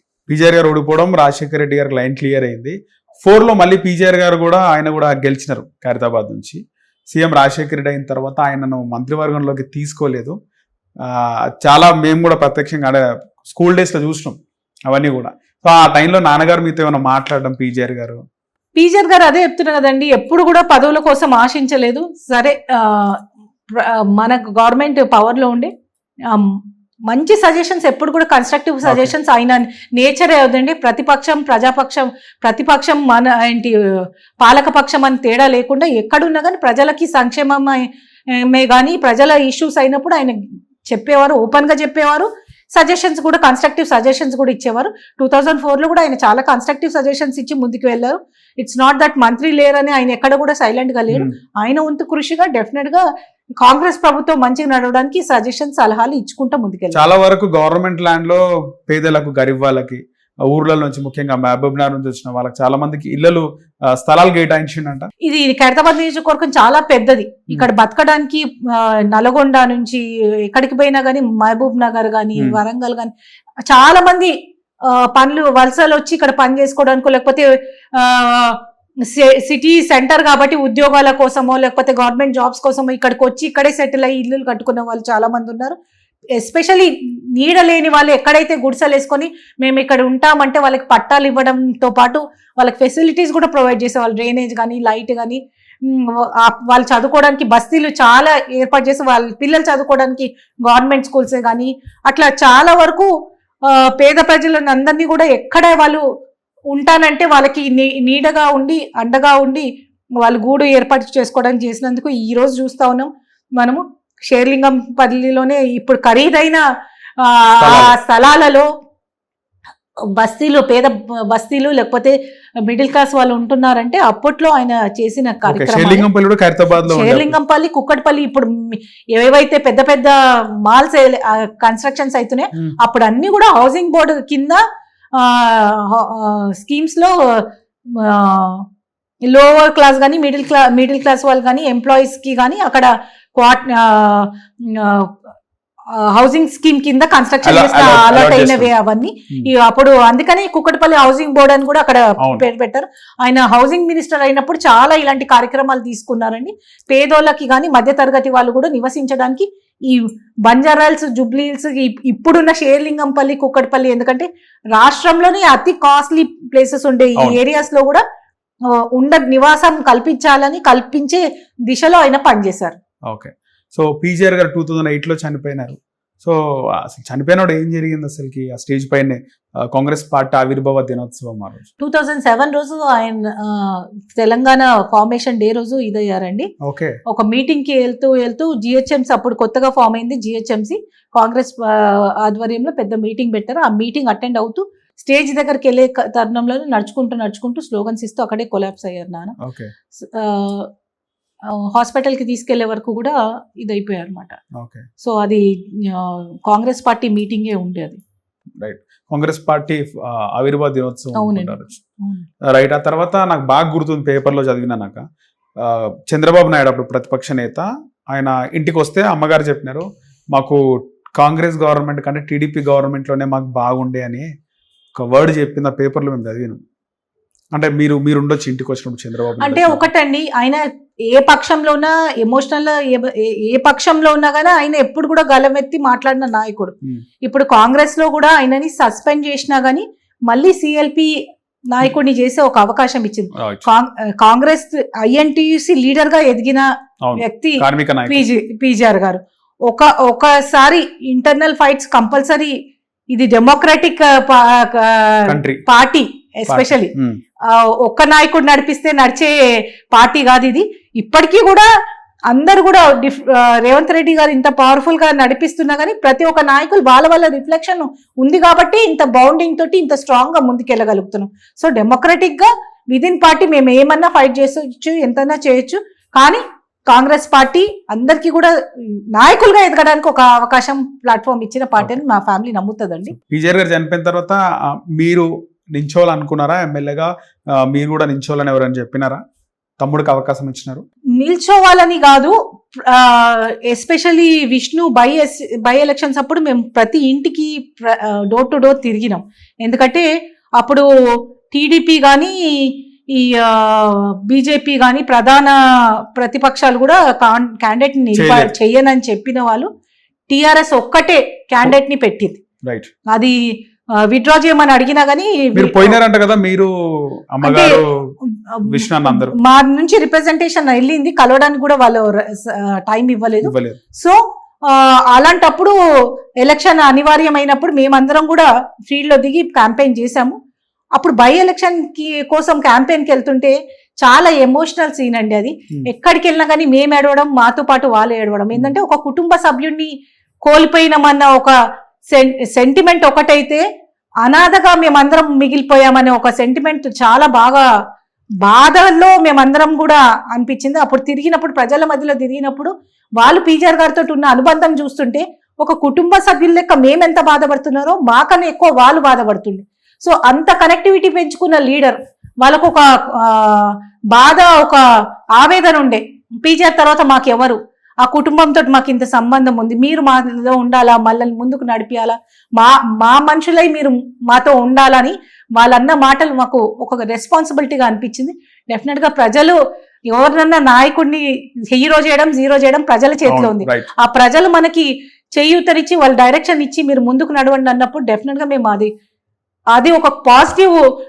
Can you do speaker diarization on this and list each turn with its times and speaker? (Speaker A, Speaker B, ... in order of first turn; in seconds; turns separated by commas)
Speaker A: 0.3-6.6, Speaker A: 7.1-10.4, Speaker A: 11.1-18.2, Speaker B: 18.8-23.2, Speaker B: 23.7-25.7, Speaker B: 27.1-33.7, Speaker A: 28.9-29.1, Speaker B: 34.4-37.9, Speaker B: 38.4-40.4, Speaker B: 40.9-53.0, Speaker B: 53.6-57.1, Speaker A: 56.9-65.1, Speaker B: 65.2-73.1, Speaker B: 73.7-74.3, Speaker B: 74.9-78.6, Speaker B: 79.1-85.8, Speaker B: 86.4-103.1, Speaker B: 103.7-106.0, Speaker B: 106.7-109.7, Speaker B: 110.2-113.1, Speaker B: 113.6-116.6, Speaker B: 117.2-118.7, Speaker A: 117.6-118.0, Speaker B: 120.2-122.2, Speaker B: 122.7-126.1, Speaker A: 125.5-127.4, Speaker B: 126.8-134.6, Speaker B: 135.2-138.6, Speaker B: 139.3-145.1, Speaker B: 146.1-168.0, Speaker A: 147.4-148.7, Speaker B: 168.9-172.8, Speaker A: 173.1-181.7, Speaker B: 181.8-186.5, Speaker A: 186.6-187.0, Speaker B: 187.1-199.3, Speaker A: 199.4-199.7, Speaker B: 200.0-200.7, Speaker B: 201.5-204.4, Speaker A: 204.6-204.8, Speaker B: 205.0-208.0, Speaker A: 208.6-211.8, Speaker B: 211.2-212.2, Speaker A: 212.5-215.0, Speaker A: 215.6-220.6, Speaker A: 221.2-224.3, Speaker A: 225.0-226.6, Speaker A: 227.5-229.8, Speaker B: 229.4-241.1, Speaker B: 241.7-246.7, Speaker A: 243.4-243.6, Speaker A: 247.0-248.3, Speaker B: 247.2-252.6, Speaker B: 253.1-256.9, Speaker A: 255.3-255.6, Speaker A: 256.5-257.2, Speaker B: 257.5-259.4, Speaker B: 259.9-261.7, Speaker B: 262.3-278.5, Speaker B: 279.1-283.1, Speaker A: 283.2-284.4, Speaker A: 284.9-289.2, Speaker A: 289.8-290.8, Speaker B: 291.2-292.4, Speaker B: 292.9-300.1, Speaker B: 300.6-300.9, Speaker B: 301.5-305.6, Speaker B: 306.2-309.7, Speaker A: 308.2-308.5, Speaker B: 310.3-312.4, Speaker A: 312.6-312.9, Speaker B: 314.1-316.0, Speaker A: 315.6-316.7, Speaker A: 317.3-318.1, Speaker B: 317.4-317.8, Speaker B: 318.5-325.8, Speaker A: 318.7-319.4, Speaker A: 323.4-323.8, Speaker B: 326.4-330.4, Speaker B: 331.0-339.9, Speaker B: 340.4-341.5, Speaker B: 342.1-343.6, Speaker B: 344.2-347.6, Speaker B: 348.4-364.8, Speaker B: 365.4-379.6, Speaker B: 380.1-388.9, Speaker A: 383.3-383.9, Speaker B: 389.7-390.8